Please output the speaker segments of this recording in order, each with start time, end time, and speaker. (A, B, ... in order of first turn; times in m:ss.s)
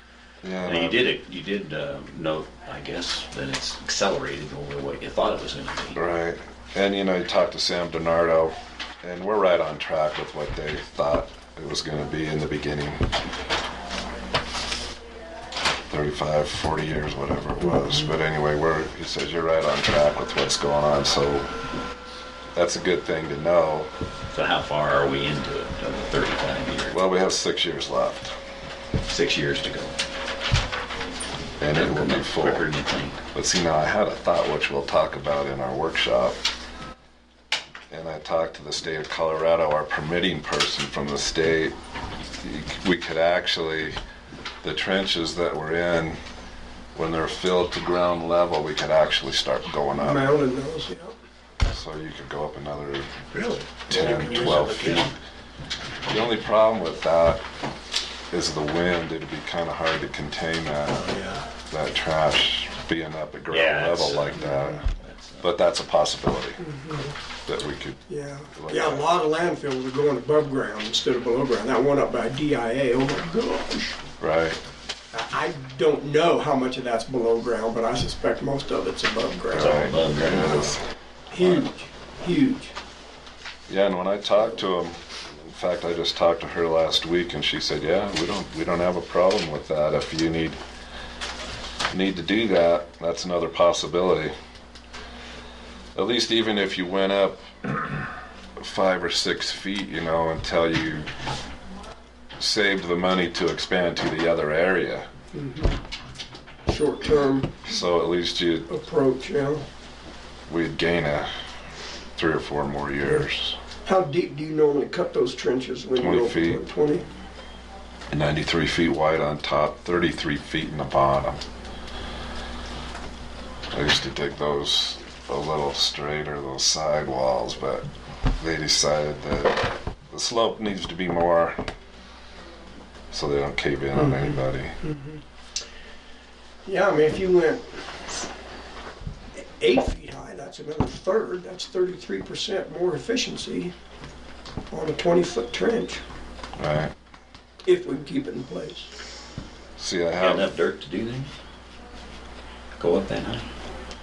0:00.4-0:01.0 A
0:00.7-0:06.0 B
0:06.0-0:13.1 A
0:15.9-0:21.5 A
0:17.6-0:18.1 C
0:22.5-0:23.9 A
0:24.3-0:27.0 B
0:26.9-0:28.3 A
0:29.1-0:30.0 B
0:31.6-0:32.7 A
0:31.7-0:33.2 B
0:33.3-0:36.4 A
0:37.9-0:41.8 A
0:42.4-0:44.0 A
0:44.6-0:46.2 A
0:47.0-0:50.3 A
0:49.9-0:51.2 C
0:51.6-0:53.1 A
0:53.3-0:55.2 D
0:53.9-0:55.2 A
0:56.1-0:57.4 A
0:58.3-1:01.1 A
1:00.9-1:01.5 D
1:01.7-1:04.9 A
1:03.5-1:05.5 B
1:04.5-1:04.8 C
1:05.4-1:06.6 A
1:06.6-1:07.2 C
1:07.5-1:09.1 A
1:08.1-1:14.0 C
1:14.2-1:14.6 A
1:15.1-1:19.9 C
1:19.5-1:20.8 A
1:19.5-1:20.8 B
1:21.3-1:22.8 C
1:23.7-1:30.6 A
1:31.9-1:34.3 A
1:36.0-1:37.7 A
1:38.6-1:41.1 A
1:42.4-1:45.1 A
1:45.3-1:45.8 C
1:46.7-1:47.6 C
1:47.6-1:48.7 A
1:48.7-1:49.6 C
1:50.5-1:51.3 A
1:52.2-1:53.6 A
1:53.9-1:57.0 C
1:56.0-1:56.6 A
1:58.1-2:01.4 A
2:03.7-2:07.9 A
2:08.4-2:11.6 A
2:13.1-2:14.8 A
2:13.9-2:15.2 C
2:16.7-2:18.2 C
2:19.4-2:23.7 C
2:24.7-2:26.0 C
2:26.6-2:26.9 A
2:27.6-2:28.9 C
2:29.8-2:30.5 A
2:30.1-2:31.3 B
2:32.8-2:33.5 B